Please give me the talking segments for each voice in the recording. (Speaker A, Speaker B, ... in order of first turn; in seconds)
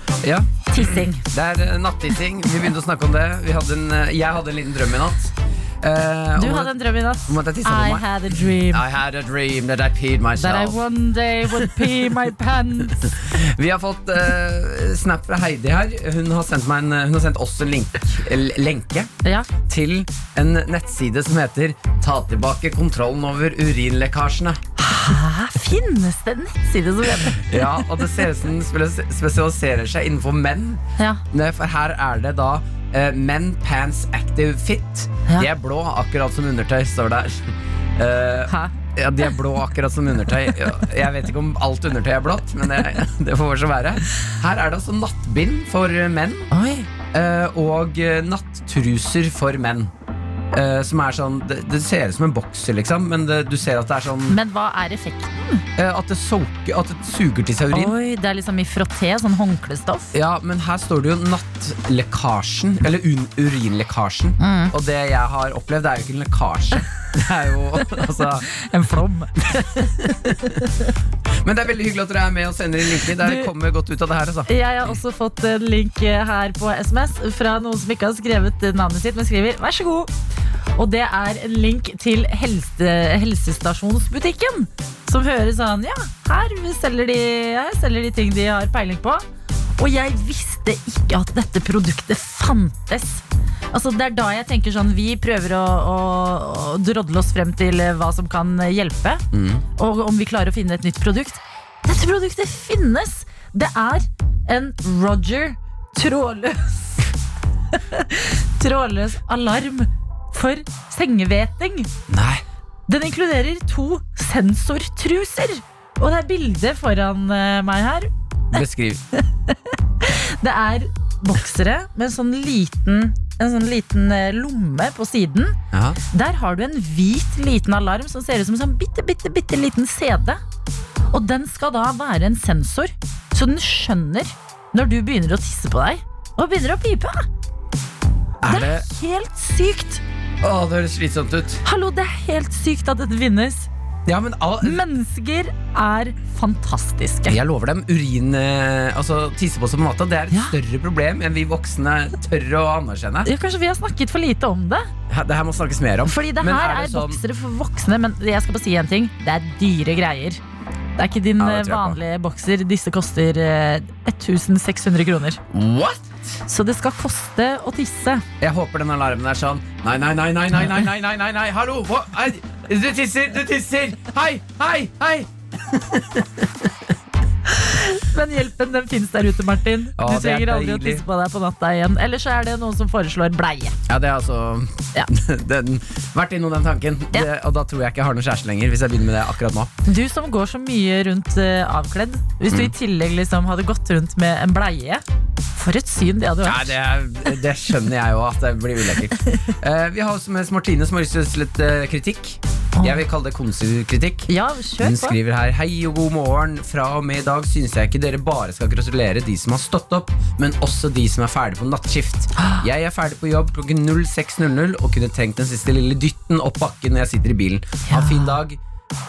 Speaker A: 0.2-6.7, 7.3-10.8, 11.5-12.1, 12.8-19.1, 19.6-24.6, 27.4-46.5, 47.1-49.9, 50.5-54.4, 55.8-57.9, 60.1-68.5, 69.5-70.6, 71.4-74.5, 99.3-99.6, 112.1-112.4, 118.5-119.0, 125.7-126.0, 138.4-138.8, 140.4-141.6, 144.1-144.8, 147.3-153.3, 155.1-157.2, 161.4-162.0, 165.5-166.1, 168.4-176.7, 180.0-181.0, 183.9-189.7, 196.4-218.6
Speaker B: 0.7-1.2, 6.4-8.8, 10.3-13.0, 19.2-19.5, 24.8-27.6, 31.0-31.2, 46.5-46.9, 54.3-55.6, 57.7-60.1, 64.4-64.7, 68.5-70.7, 73.1-73.5, 74.5-80.1, 80.8-89.2, 89.8-99.2, 99.8-107.0, 107.7-111.9, 112.9-118.6, 119.5-125.6, 126.1-130.4, 131.1-137.3, 138.5-140.0, 141.6-143.7, 144.6-147.4, 153.2-154.9, 156.1-160.4, 160.9-165.4, 166.4-168.2, 177.6-183.8, 189.8-195.0, 195.5-196.7, 202.8-203.0, 204.3-205.2, 212.4-212.6, 217.9-218.3